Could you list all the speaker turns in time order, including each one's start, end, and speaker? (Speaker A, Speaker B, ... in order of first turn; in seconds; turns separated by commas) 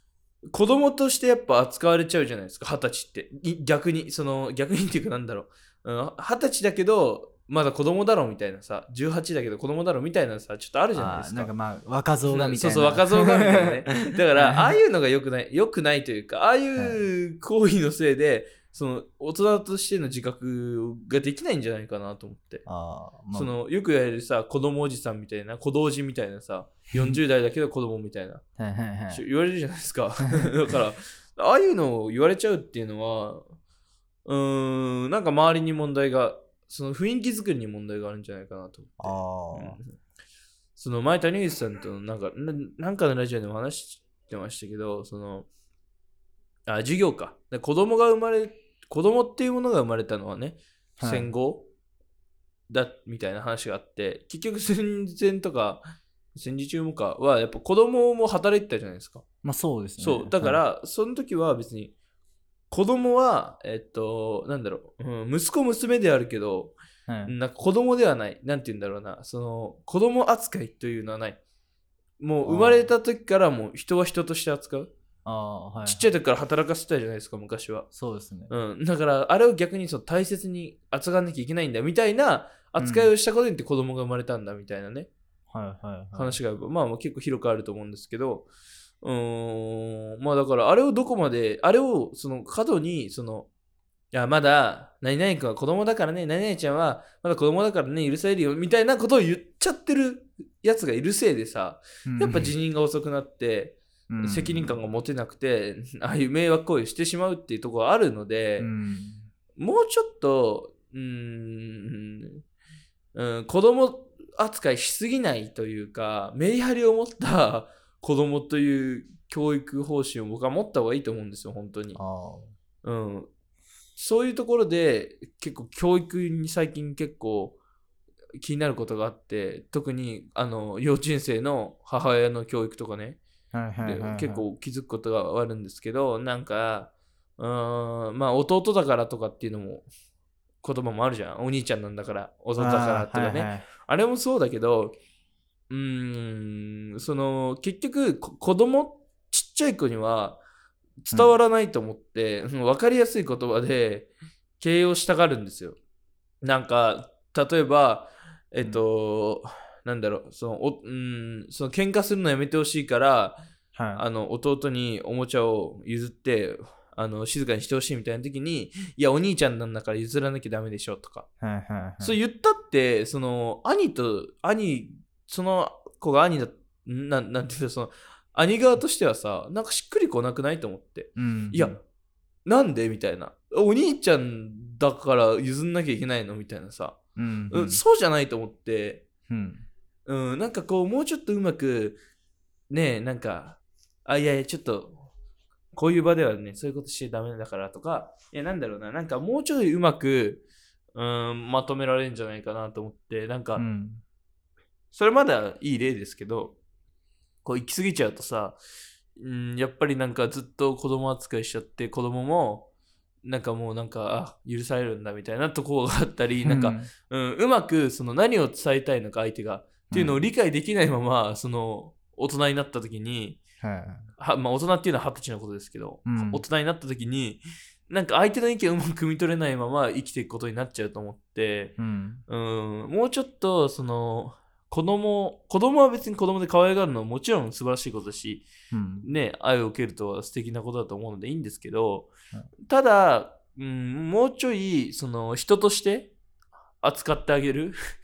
Speaker A: 0.5-11.5, Speaker B: 10.9-14.8, Speaker A: 12.3-22.7, Speaker B: 22.7-23.5, Speaker A: 23.3-28.4, Speaker B: 26.9-27.2, Speaker B: 28.6-29.2, Speaker A: 29.1-33.5, Speaker A: 34.2-39.9, Speaker B: 39.0-39.8, Speaker A: 40.8-45.5, Speaker A: 46.7-51.7, Speaker B: 51.0-51.3, Speaker A: 52.7-59.2, Speaker B: 59.4-60.6, Speaker A: 60.0-61.9, Speaker A: 62.7-71.4, Speaker B: 67.1-67.3, Speaker A: 72.2-74.9, Speaker B: 72.4-72.9, Speaker B: 75.2-76.1, Speaker A: 75.8-77.9, Speaker B: 77.9-78.5, Speaker A: 78.5-85.1, Speaker B: 82.8-83.1, Speaker B: 85.5-86.4, Speaker A: 86.2-88.5, Speaker A: 89.0-93.5, Speaker A: 94.1-108.7, Speaker B: 102.1-102.5, Speaker B: 104.1-104.8, Speaker B: 108.6-109.3, Speaker A: 109.6-112.4, Speaker A: 113.1-122.0, Speaker B: 122.0-122.5, Speaker A: 122.8-123.3, Speaker A: 124.0-127.6, Speaker A: 128.4-133.2, Speaker B: 133.5-134.4, Speaker A: 133.8-139.9, Speaker A: 140.6-144.9, Speaker B: 142.6-143.7, Speaker A: 145.7-150.4, Speaker A: 151.0-155.8, Speaker A: 156.4-163.4, Speaker B: 163.8-164.0, Speaker A: 163.9-171.3, Speaker B: 171.4-172.2, Speaker A: 172.0-181.8, Speaker B: 181.2-181.8, Speaker A: 182.5-187.0, Speaker B: 187.2-187.8, Speaker A: 187.5-189.1, Speaker B: 189.3-189.6, Speaker A: 190.1-192.0, Speaker A: 192.7-195.1, Speaker A: 195.7-200.4, Speaker A: 200.9-203.6, Speaker B: 203.6-204.0, Speaker A: 204.9-206.6, Speaker A: 207.4-208.6, Speaker A: 209.2-212.7, Speaker A: 213.2-223.4, Speaker B: 216.4-216.9, Speaker B: 219.9-220.2, Speaker B: 223.6-224.1, Speaker A: 224.2-238.4, Speaker B: 226.1-226.4, Speaker B: 231.8-232.2, Speaker B: 238.7-239.1, Speaker A: 239.0-242.1, Speaker A: 242.7-246.1, Speaker A: 246.8-247.8